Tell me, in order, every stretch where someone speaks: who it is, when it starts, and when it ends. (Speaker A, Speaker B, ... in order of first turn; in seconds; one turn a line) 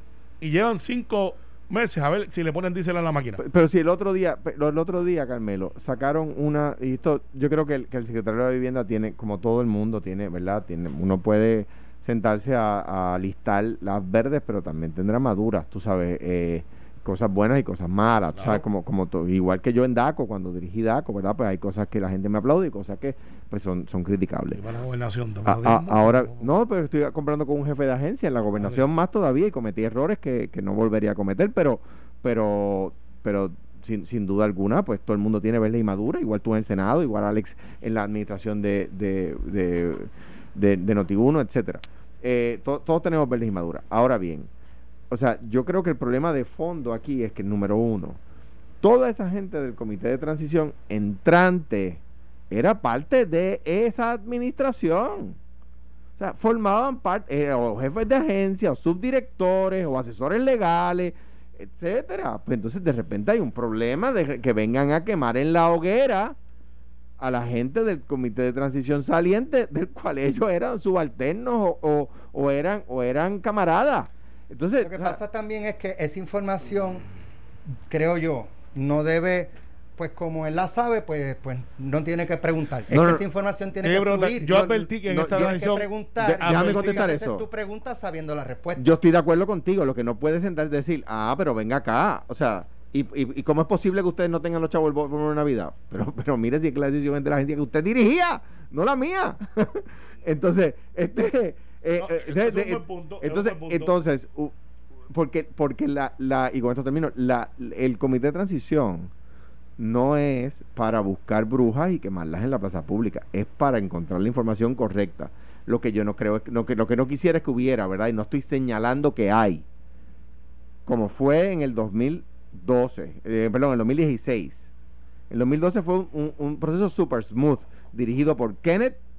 Speaker A: 0.4-3.4
Speaker B: 3.4-24.6
Speaker A: 18.4-18.6
Speaker A: 24.6-26.5
Speaker B: 25.4-44.5
Speaker B: 45.1-48.2
Speaker B: 48.8-55.4
Speaker B: 56.2-66.4
Speaker B: 67.2-75.2
Speaker C: 74.8-77.0
Speaker C: 77.9-88.9
Speaker B: 82.9-83.2
Speaker A: 83.8-85.9
Speaker B: 85.0-87.5
Speaker A: 86.4-86.9
Speaker B: 88.8-104.5
Speaker A: 102.0-103.9
Speaker B: 105.1-109.1
Speaker B: 109.8-119.7
Speaker B: 120.9-124.7
Speaker B: 125.3-129.0